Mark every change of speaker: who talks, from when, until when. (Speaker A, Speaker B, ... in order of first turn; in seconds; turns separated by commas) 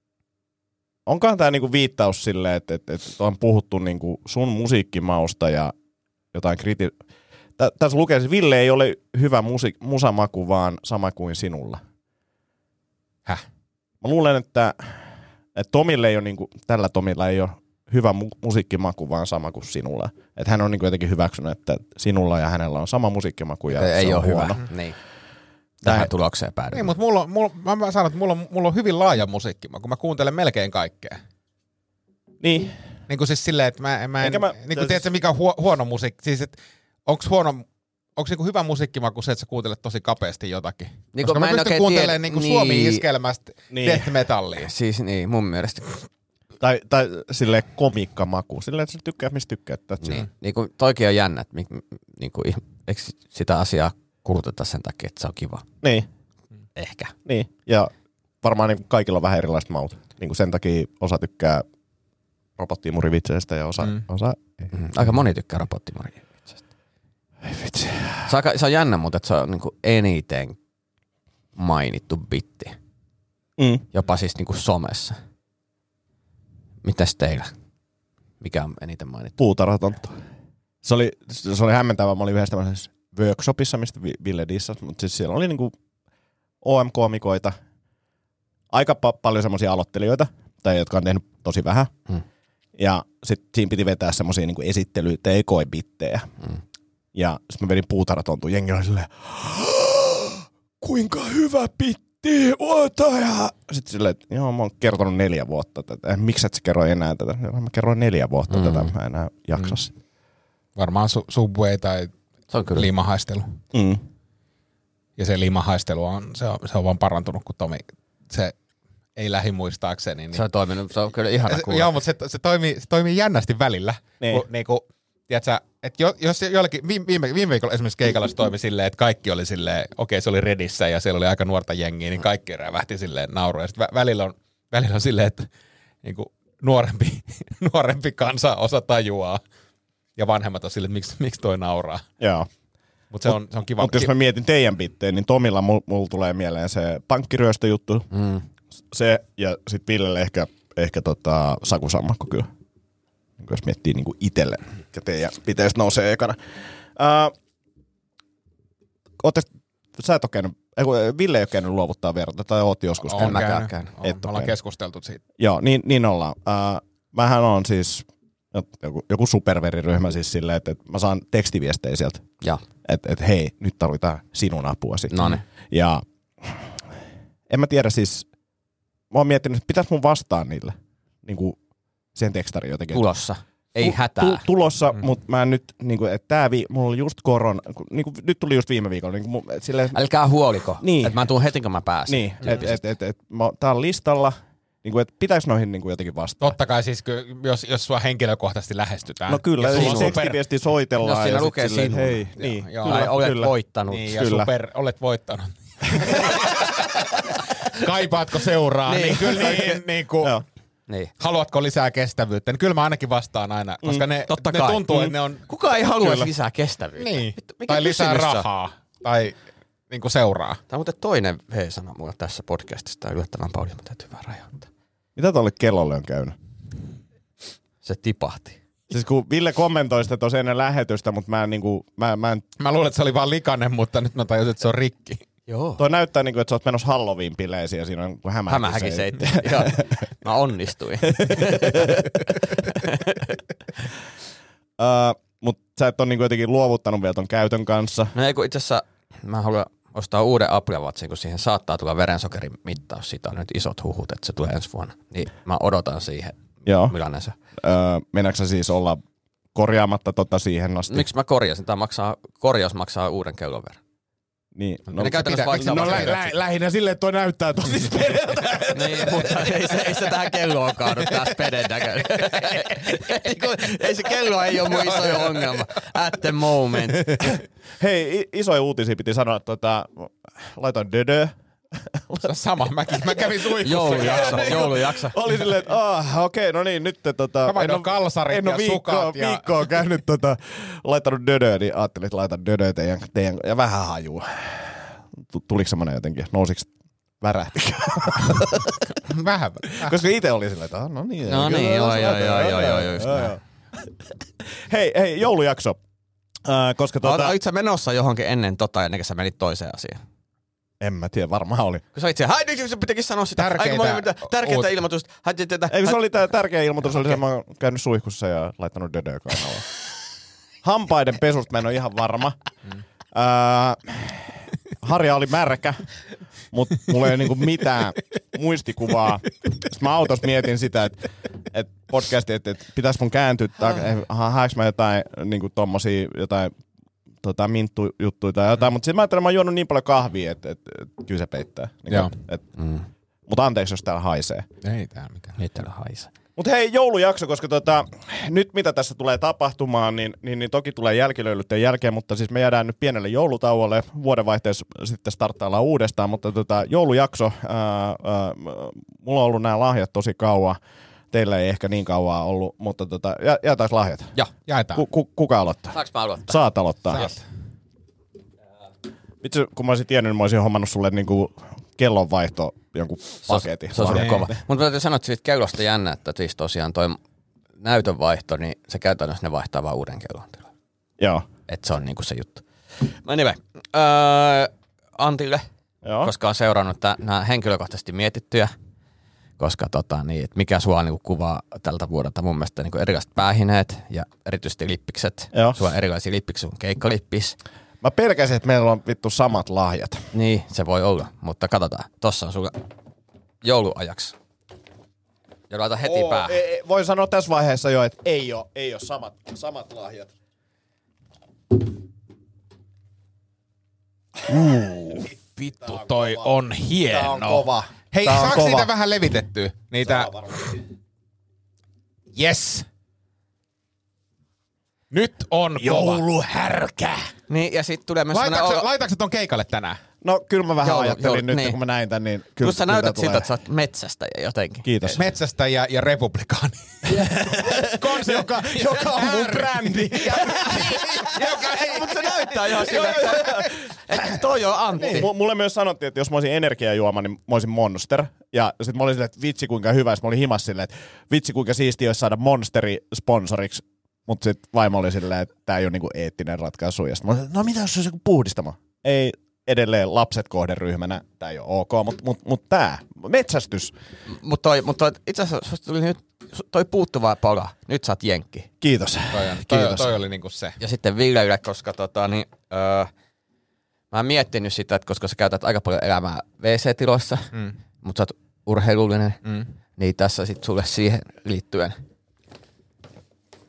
Speaker A: 1.1-5.7, Speaker A: 6.3-6.9, Speaker A: 7.6-11.8, Speaker A: 14.0-24.6, Speaker B: 23.7-24.9, Speaker B: 25.8-26.9, Speaker C: 26.7-31.2, Speaker A: 32.4-32.8, Speaker C: 33.1-37.6, Speaker A: 34.2-35.1, Speaker C: 38.2-44.7, Speaker B: 41.1-43.0, Speaker A: 43.7-44.1, Speaker B: 44.5-46.0, Speaker A: 46.6-50.2, Speaker B: 50.0-55.6, Speaker A: 55.8-56.1, Speaker B: 56.8-57.1, Speaker A: 57.2-57.9, Speaker A: 58.4-61.6, Speaker A: 62.6-64.7, Speaker B: 64.7-66.6, Speaker A: 67.4-68.3, Speaker B: 68.2-70.6, Speaker B: 71.5-72.8, Speaker A: 73.6-73.8, Speaker B: 73.9-75.2, Speaker B: 76.8-77.5, Speaker B: 78.4-79.4, Speaker A: 79.4-80.2, Speaker A: 80.8-85.7, Speaker A: 86.6-87.5, Speaker A: 88.7-91.9, Speaker A: 92.8-96.3, Speaker A: 97.1-109.9, Speaker B: 108.5-108.9, Speaker C: 110.8-112.1, Speaker B: 112.5-112.9, Speaker C: 112.7-113.6, Speaker A: 113.7-114.0, Speaker C: 115.2-118.5, Speaker C: 119.2-120.4, Speaker B: 120.3-122.0, Speaker C: 121.5-135.5, Speaker C: 136.0-139.4, Speaker C: 140.2-142.1, Speaker A: 142.2-142.5, Speaker C: 143.1-144.1, Speaker A: 143.2-148.2, Speaker B: 148.1-148.4, Speaker A: 148.9-152.5, Speaker A: 153.4-157.3, Speaker A: 159.2-164.5, Speaker C: 163.1-165.2, Speaker B: 163.1-163.9, Speaker A: 165.4-172.2, Speaker A: 172.8-176.8, Speaker B: 175.1-175.4, Speaker A: 177.5-178.3, Speaker A: 179.1-181.6, Speaker A: 182.1-183.1, Speaker B: 182.9-184.4, Speaker A: 183.8-190.0, Speaker B: 189.9-192.7, Speaker A: 190.8-191.2, Speaker A: 192.1-196.5, Speaker C: 196.4-200.4, Speaker A: 199.3-203.5, Speaker B: 199.6-200.2, Speaker B: 201.0-202.2, Speaker C: 202.4-203.1, Speaker B: 202.8-204.2, Speaker C: 203.9-210.4, Speaker A: 204.1-204.5, Speaker B: 208.8-209.8, Speaker C: 211.2-215.4, Speaker B: 214.3-218.5, Speaker A: 216.0-216.3, Speaker C: 217.0-219.4, Speaker C: 219.9-220.6, Speaker B: 220.7-224.7, Speaker A: 225.2-226.3, Speaker B: 227.8-228.6, Speaker A: 228.9-232.4, Speaker C: 232.6-235.2, Speaker B: 235.5-235.8, Speaker A: 235.8-240.0, Speaker B: 238.5-243.3, Speaker A: 241.1-242.1, Speaker A: 244.8-248.1, Speaker B: 248.1-257.3, Speaker A: 256.6-256.9, Speaker A: 257.6-259.0, Speaker A: 259.5-261.1, Speaker B: 260.9-263.8, Speaker A: 264.5-270.2, Speaker B: 264.9-266.2, Speaker C: 265.1-266.3, Speaker B: 268.7-277.4, Speaker A: 271.0-271.3, Speaker A: 277.8-282.3, Speaker C: 282.2-284.8, Speaker A: 282.9-296.7, Speaker B: 283.6-285.1, Speaker C: 287.4-289.5, Speaker A: 297.2-298.9, Speaker C: 298.9-300.0, Speaker A: 299.8-304.0, Speaker B: 301.2-303.3, Speaker A: 304.5-305.8, Speaker A: 306.4-307.3, Speaker B: 307.0-310.0, Speaker A: 310.8-311.8, Speaker B: 311.9-316.0, Speaker C: 313.4-314.7, Speaker A: 315.7-319.7, Speaker A: 320.6-322.4, Speaker A: 323.1-325.8, Speaker A: 326.5-336.5, Speaker A: 337.2-342.4, Speaker B: 342.6-342.9, Speaker A: 343.3-344.5, Speaker C: 344.6-345.3, Speaker B: 345.4-346.1, Speaker A: 346.4-360.6, Speaker A: 361.1-364.1, Speaker C: 364.5-364.8, Speaker A: 364.7-367.1, Speaker B: 365.7-366.4, Speaker C: 366.9-367.2, Speaker A: 369.2-374.4, Speaker B: 373.3-377.0, Speaker C: 373.9-374.2, Speaker B: 377.6-380.5, Speaker A: 381.0-381.2, Speaker B: 381.5-385.4, Speaker A: 385.8-386.1, Speaker B: 386.0-388.5, Speaker B: 389.4-397.4, Speaker A: 395.3-395.6, Speaker A: 397.8-400.0, Speaker B: 400.1-402.6, Speaker B: 403.4-404.1, Speaker B: 405.5-406.4, Speaker A: 405.8-410.1, Speaker A: 414.3-418.7, Speaker C: 414.3-420.6, Speaker A: 419.8-420.5, Speaker C: 422.1-422.6, Speaker C: 424.9-426.1, Speaker A: 425.6-427.0, Speaker B: 427.3-428.7, Speaker C: 428.1-429.8, Speaker A: 430.0-433.3, Speaker B: 430.6-431.6, Speaker B: 432.4-435.0, Speaker A: 434.6-435.0, Speaker C: 434.9-443.5, Speaker A: 436.9-444.1, Speaker B: 437.3-437.6, Speaker B: 440.2-445.1, Speaker A: 444.8-463.7, Speaker C: 444.8-445.0, Speaker B: 464.1-468.5, Speaker A: 468.6-469.9, Speaker C: 469.1-470.6, Speaker B: 470.6-472.9, Speaker B: 473.9-479.2, Speaker C: 479.2-479.5, Speaker B: 479.8-481.8